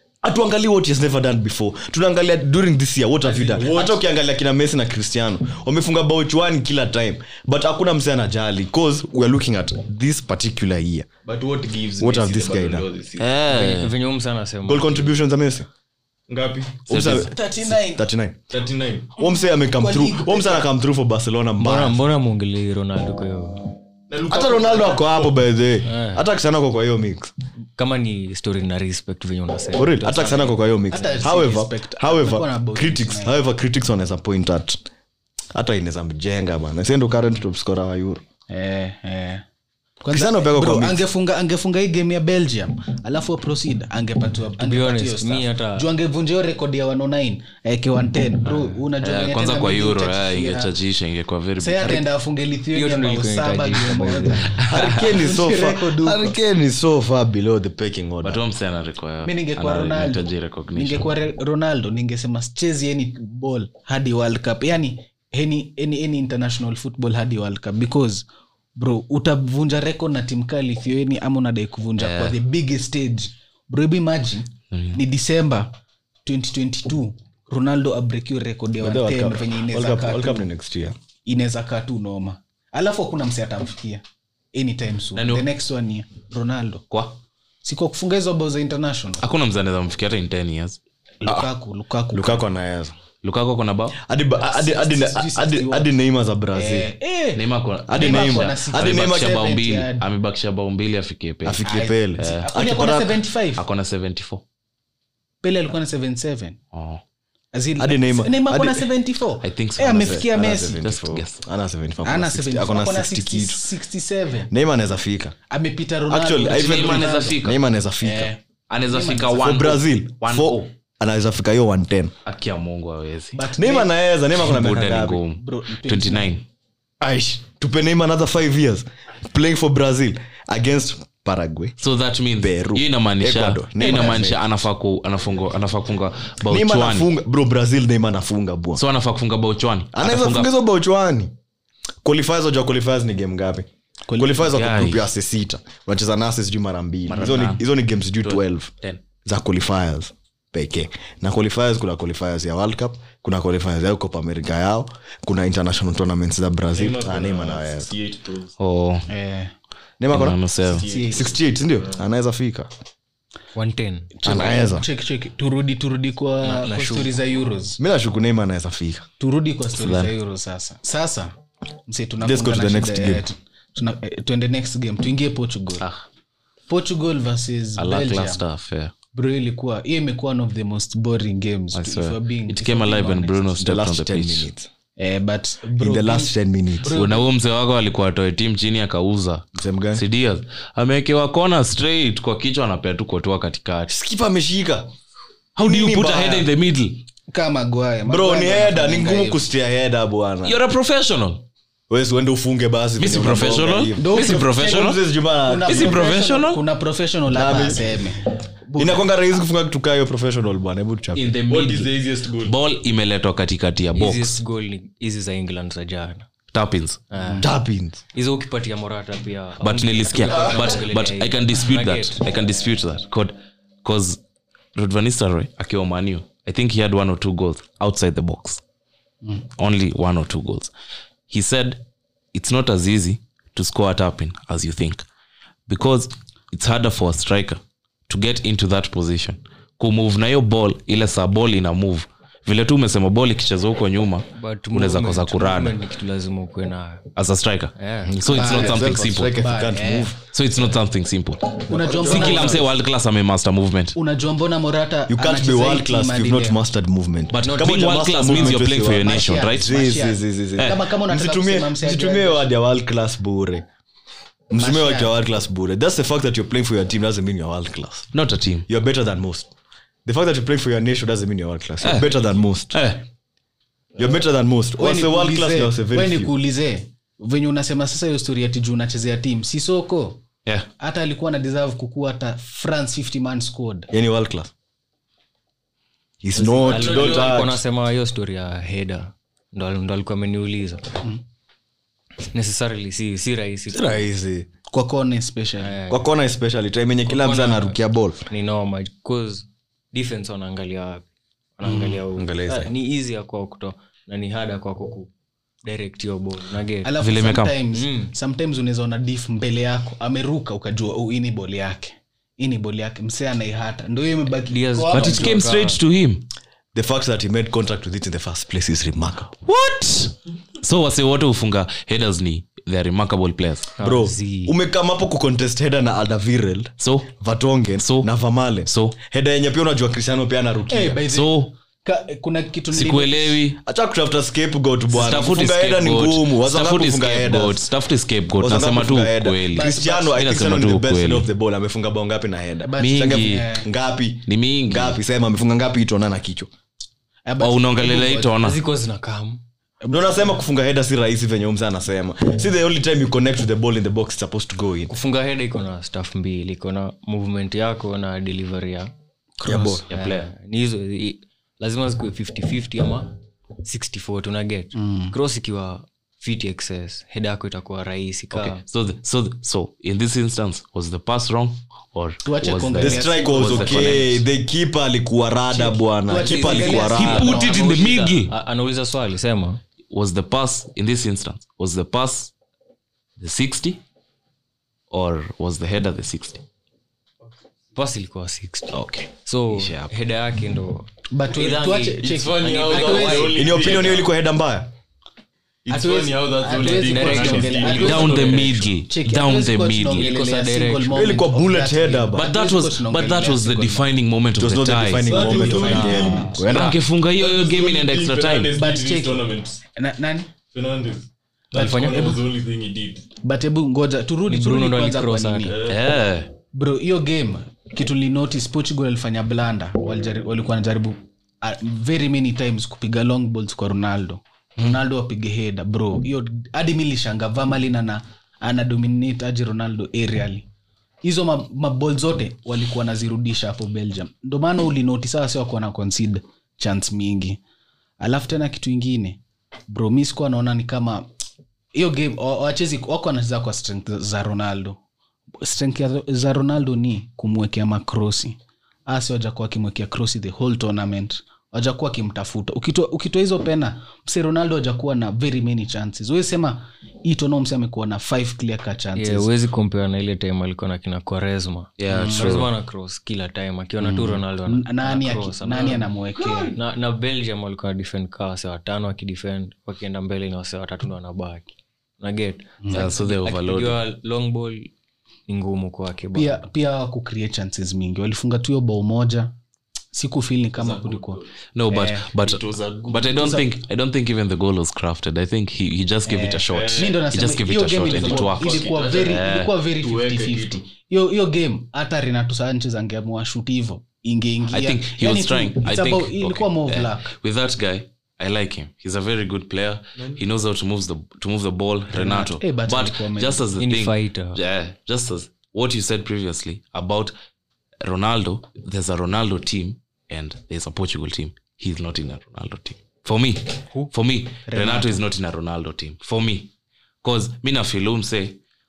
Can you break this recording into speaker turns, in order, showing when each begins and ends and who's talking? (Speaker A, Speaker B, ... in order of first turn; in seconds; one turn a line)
Speaker A: 0.2-11.1
Speaker B: 3.2-4.0
Speaker B: 11.2-13.3
Speaker A: 12.0-12.9
Speaker C: 13.2-13.9
Speaker D: 13.5-15.2
Speaker A: 14.7-15.7
Speaker B: 16.3-16.9
Speaker C: 16.9-17.3
Speaker A: 16.9-18.4
Speaker E: 17.1-18.1
Speaker B: 18.5-19.1
Speaker A: 19.1-22.0
Speaker E: 19.3-20.7
Speaker D: 21.6-23.7
Speaker B: 24.1-25.4
Speaker A: 24.3-27.3
Speaker D: 25.9-26.2
Speaker D: 27.8-30.6
Speaker A: 29.8-34.8
Speaker E: 30.9-33.4
Speaker A: 35.5-38.2
Speaker E: 38.5-39.4
Speaker E: 40.0-50.7
Speaker A: 40.1-41.0
Speaker D: 44.6-45.9
Speaker C: 49.0-52.1
Speaker E: 51.6-56.4
Speaker D: 52.7-54.7
Speaker A: 54.6-58.4
Speaker C: 54.8-55.1
Speaker C: 58.2-61.1
Speaker E: 59.2-80.5
Speaker C: 72.0-72.4
Speaker C: 74.7-75.0
Speaker A: 78.8-81.0
Speaker E: 81.2-84.0
Speaker E: 84.5-86.8
Speaker C: 85.2-85.5
Speaker C: 86.9-87.2
Speaker E: 87.6-89.2
Speaker C: 89.2-91.4
Speaker E: 91.2-92.5
Speaker A: 92.1-93.0
Speaker C: 93.2-94.0
Speaker A: 94.0-96.9
Speaker E: 94.4-95.9
Speaker E: 96.5-100.1
Speaker C: 97.3-101.6
Speaker A: 97.9-99.4
Speaker A: 101.5-103.2
Speaker E: 101.6-103.6
Speaker C: 102.2-102.5
Speaker C: 103.6-104.4
Speaker E: 105.4-106.6
Speaker C: 106.7-107.0
Speaker E: 107.5-110.8
Speaker A: 107.8-108.9
Speaker C: 109.4-111.4
Speaker A: 109.9-113.7
Speaker E: 112.0-114.5
Speaker A: 114.5-115.4
Speaker E: 115.5-117.4
Speaker A: 116.1-118.3
Speaker C: 116.5-117.6
Speaker E: 118.0-119.5
Speaker C: 118.7-120.7
Speaker A: 119.4-122.1
Speaker C: 122.2-123.5
Speaker E: 123.3-123.9
Speaker A: 123.6-125.2
Speaker C: 124.4-126.5
Speaker E: 125.3-126.3
Speaker A: 127.0-131.8
Speaker C: 131.8-137.1
Speaker A: 132.4-134.4
Speaker E: 133.8-134.3
Speaker A: 136.5-138.8
Speaker C: 138.8-140.5
Speaker A: 139.9-141.3
Speaker A: 142.0-148.7
Speaker E: 144.1-144.4
Speaker C: 144.4-145.1
Speaker C: 147.1-147.6
Speaker C: 148.2-149.0
Speaker A: 149.2-157.9
Speaker B: 156.7-158.5
Speaker C: 158.6-159.1
Speaker E: 159.1-159.5
Speaker A: 160.0-160.4
Speaker C: 160.1-160.9
Speaker B: 160.7-162.0
Speaker E: 160.8-161.3
Speaker A: 161.1-162.7
Speaker D: 163.6-164.1
Speaker E: 164.2-167.8
Speaker A: 164.2-164.9
Speaker D: 166.4-167.2
Speaker A: 167.8-169.1
Speaker E: 169.2-171.3
Speaker C: 169.7-170.1
Speaker E: 171.9-175.9
Speaker A: 172.2-173.2
Speaker E: 176.7-178.4
Speaker C: 177.8-178.9
Speaker E: 179.1-183.6
Speaker C: 181.7-184.5
Speaker A: 183.6-184.7
Speaker E: 185.0-187.3
Speaker A: 185.8-187.0
Speaker C: 186.9-193.9
Speaker A: 189.6-190.0
Speaker A: 193.9-194.9
Speaker C: 195.6-197.0
Speaker A: 195.6-196.5
Speaker E: 197.3-199.5
Speaker A: 198.1-200.6
Speaker C: 200.4-201.4
Speaker A: 201.9-206.1
Speaker C: 203.0-205.0
Speaker E: 204.0-209.1
Speaker C: 205.7-206.6
Speaker A: 207.3-208.0
Speaker A: 208.8-211.2
Speaker C: 211.2-214.4
Speaker B: 211.5-212.6
Speaker D: 213.9-216.3
Speaker C: 216.5-217.0
Speaker D: 217.1-217.5
Speaker E: 217.2-217.5
Speaker A: 217.4-218.0
Speaker D: 218.1-222.2
Speaker C: 219.6-224.2
Speaker C: 224.8-228.6
Speaker C: 229.6-230.7
Speaker C: 231.3-235.1
Speaker C: 235.7-245.8
Speaker D: 244.3-247.1
Speaker C: 247.2-249.4
Speaker D: 247.8-248.3
Speaker A: 248.1-250.2
Speaker E: 248.3-250.1
Speaker C: 250.3-254.0
Speaker E: 251.7-252.7
Speaker A: 251.8-252.6
Speaker D: 252.0-252.5
Speaker E: 253.9-256.6
Speaker A: 255.1-263.6
Speaker C: 257.3-259.8
Speaker D: 257.4-258.4
Speaker E: 259.0-262.5
Speaker A: 264.5-268.1
Speaker E: 264.6-265.1
Speaker C: 268.1-268.7
Speaker A: 268.7-269.5
Speaker A: 270.1-272.8
Speaker C: 271.8-272.1
Speaker C: 272.7-273.0
Speaker A: 274.0-276.3
Speaker E: 274.8-280.2
Speaker E: 280.8-283.9
Speaker A: 283.9-284.5
Speaker A: 286.2-287.6
Speaker D: 286.4-291.0
Speaker B: 286.5-287.5
Speaker D: 292.3-294.1
Speaker A: 293.7-294.5
Speaker E: 294.7-295.8
Speaker D: 295.6-296.0
Speaker A: 295.9-298.2
Speaker D: 297.1-301.1
Speaker D: 301.6-305.1
Speaker A: 301.7-302.7
Speaker D: 305.6-306.9
Speaker E: 306.8-315.4
Speaker C: 307.0-307.6
Speaker D: 307.7-308.1
Speaker D: 314.5-315.8
Speaker C: 314.9-316.3
Speaker A: 316.7-319.3
Speaker C: 319.4-323.7
Speaker D: 323.8-324.6
Speaker A: 323.8-331.0
Speaker C: 326.8-327.1
Speaker C: 327.8-328.1
Speaker C: 328.7-329.0
Speaker E: 330.7-333.4
Speaker C: 331.1-331.5
Speaker C: 332.7-333.6
Speaker A: 333.6-337.7
Speaker C: 334.9-341.3
Speaker A: 338.4-346.5
Speaker E: 339.5-340.2
Speaker E: 342.6-343.7
Speaker C: 342.8-343.5
Speaker C: 344.3-345.0
Speaker E: 347.3-348.3
Speaker C: 347.4-348.6
Speaker D: 348.4-349.4
Speaker E: 349.8-350.2
Speaker A: 349.9-354.9
Speaker D: 354.9-358.9
Speaker E: 359.4-359.9
Speaker A: 359.4-359.9
Speaker C: 359.9-360.3
Speaker D: 359.9-368.6
Speaker E: 364.7-365.1
Speaker C: 368.3-374.2
Speaker E: 372.2-374.1
Speaker A: 372.7-377.3
Speaker E: 375.5-377.9
Speaker D: 376.1-379.6
Speaker C: 376.9-378.3
Speaker C: 379.9-382.3
Speaker C: 383.2-383.8
Speaker C: 384.9-386.4
Speaker D: 387.8-393.8
Speaker C: 388.7-389.9
Speaker E: 391.1-393.5
Speaker B: 392.0-394.1
Speaker A: 393.4-394.7
Speaker B: 395.6-398.6
Speaker E: 395.7-403.9
Speaker D: 396.6-398.5
Speaker C: 397.7-400.1
Speaker D: 399.9-401.1
Speaker A: 400.9-402.3
Speaker C: 402.1-405.8
Speaker A: 404.4-406.8
Speaker B: 405.0-406.5
Speaker E: 405.1-406.5
Speaker D: 405.8-406.0
Speaker C: 406.4-408.6
Speaker B: 407.1-409.6
Speaker E: 408.5-410.3
Speaker B: 410.4-413.1
Speaker D: 411.5-412.2
Speaker E: 411.6-412.2
Speaker E: 413.2-415.6
Speaker D: 414.3-415.6
Speaker B: 415.5-415.8
Speaker C: 415.7-416.3
Speaker E: 416.5-430.5
Speaker E: 431.0-437.4
Speaker E: 438.0-441.1
Speaker E: 441.7-444.8
Speaker E: 445.4-459.3
Speaker D: 458.9-474.7
Speaker C: 461.8-462.5
Speaker E: 461.9-462.4
Speaker E: 463.8-466.6
Speaker E: 472.6-472.9
Speaker C: 472.7-473.8
Speaker D: 475.3-476.4
Speaker E: 476.1-479.4
Speaker E: 479.9-482.1
Speaker B: 480.6-481.3
Speaker C: 481.6-489.5
Speaker B: 482.2-483.2
Speaker E: 483.2-483.5
Speaker E: 486.1-497.1
Speaker B: 486.5-487.0
Speaker B: 487.8-490.6
Speaker C: 494.5-507.1
Speaker E: 501.9-503.4
Speaker D: 503.6-504.4
Speaker C: 507.8-516.5
Speaker E: 514.5-515.0
Speaker C: 517.0-518.4